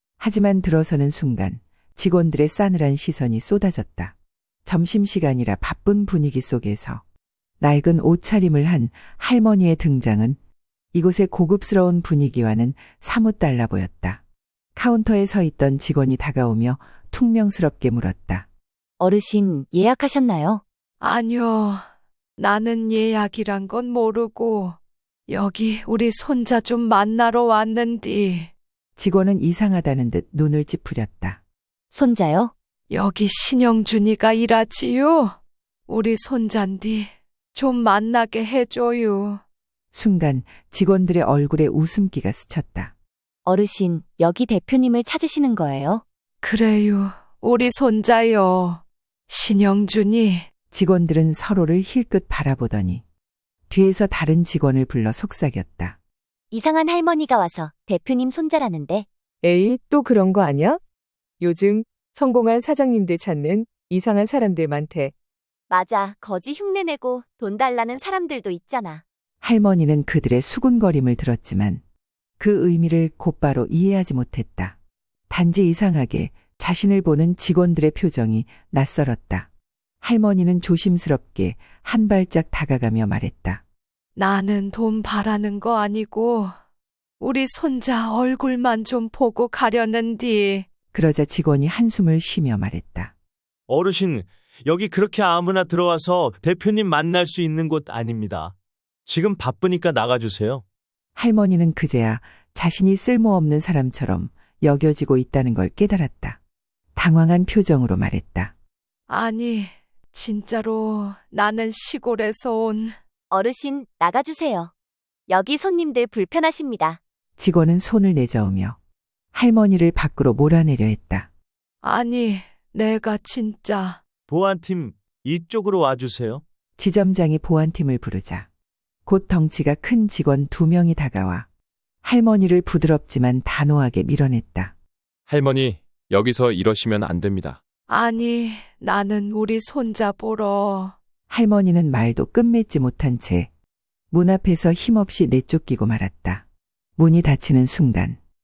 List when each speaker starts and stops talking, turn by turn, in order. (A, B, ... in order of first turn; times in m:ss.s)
0:00.2-0:04.1 A
0:04.6-0:07.0 A
0:07.6-0:10.4 A
0:10.9-0:14.2 A
0:14.8-0:18.4 A
0:19.0-0:20.6 B
0:21.0-0:21.8 C
0:22.4-0:24.8 C
0:25.3-0:28.5 C
0:29.0-0:31.4 A
0:31.9-0:32.5 B
0:32.9-0:35.4 C
0:35.9-0:39.4 C
0:39.9-0:42.9 A
0:43.4-0:46.0 B
0:46.4-0:50.5 C
0:50.7-0:53.0 A
0:53.7-0:56.0 A
0:56.5-0:59.0 B
0:59.4-1:00.8 D
1:01.4-1:05.1 D
1:05.7-1:09.0 B
1:09.4-1:11.8 A
1:12.4-1:14.7 A
1:15.3-1:19.5 A
1:20.0-1:23.6 A
1:24.2-1:26.5 C
1:27.2-1:30.7 C
1:30.9-1:33.1 A
1:33.7-1:38.5 E
1:39.1-1:40.6 E
1:41.2-1:46.4 A
1:47.0-1:48.5 A
1:49.1-1:53.0 C
1:53.3-1:54.7 B
1:55.3-1:57.0 B
1:57.4-1:58.8 A
1:59.3-2:01.3 A
2:01.8-2:04.0 C
2:04.3-2:06.4 E
2:06.8-2:08.4 A
2:09.0-2:11.5 A
2:12.0-2:14.7 A
2:15.3-2:17.6 F
2:17.9-2:20.9 C
2:21.3-2:23.5 A
2:24.1-2:26.4 A
2:27.0-2:28.2 A